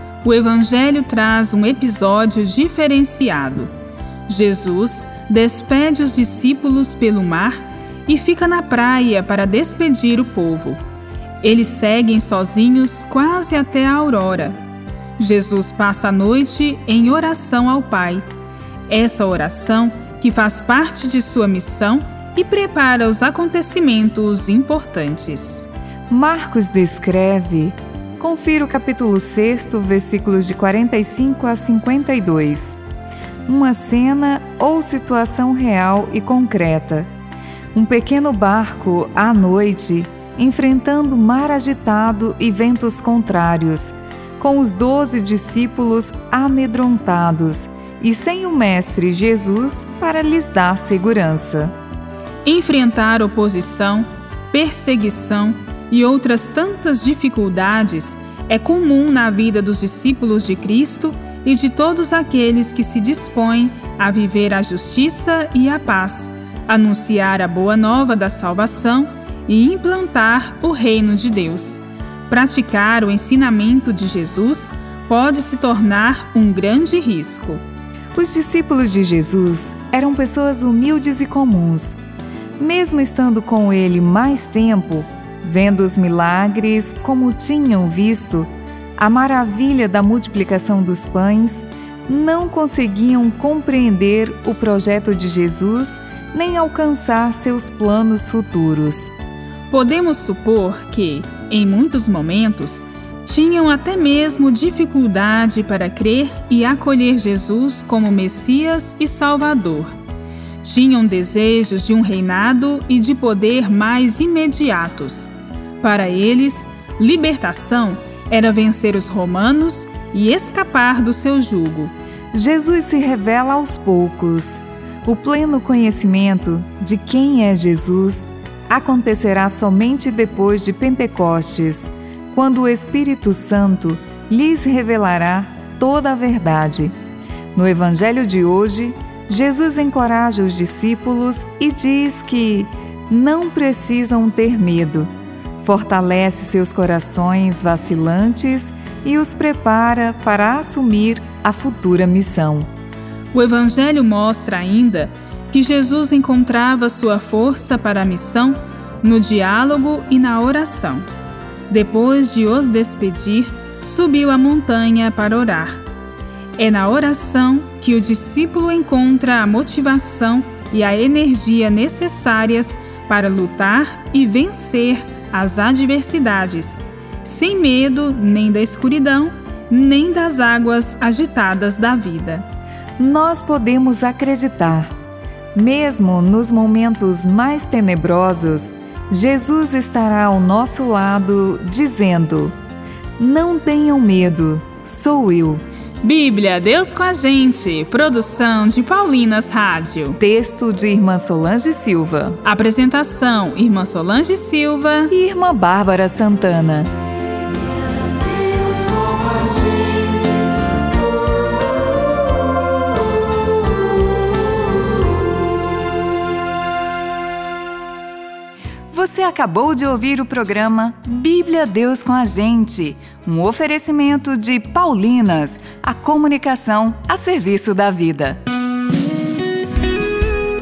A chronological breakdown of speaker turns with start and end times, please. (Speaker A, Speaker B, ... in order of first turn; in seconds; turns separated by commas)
Speaker A: 0.2-3.7, Speaker A: 4.3-10.8, Speaker A: 11.4-14.6, Speaker A: 15.2-18.2, Speaker A: 18.9-25.7, Speaker B: 26.1-32.8, Speaker B: 33.5-37.1, Speaker B: 37.7-51.7, Speaker A: 52.4-77.6, Speaker B: 78.1-82.0, Speaker B: 82.6-99.1, Speaker A: 99.7-109.9, Speaker A: 110.6-121.9, Speaker B: 122.3-136.9, Speaker B: 137.5-145.1, Speaker B: 145.6-152.7, Speaker A: 153.3-161.0, Speaker A: 161.7-165.8, Speaker A: 166.6-182.4, Speaker B: 183.0-184.9, Speaker B: 185.5-192.5, Speaker B: 193.2-195.6, Speaker A: 196.0-200.2, Speaker B: 200.2-202.4, Speaker A: 202.4-205.1, Speaker B: 205.1-206.9, Speaker B: 218.9-228.4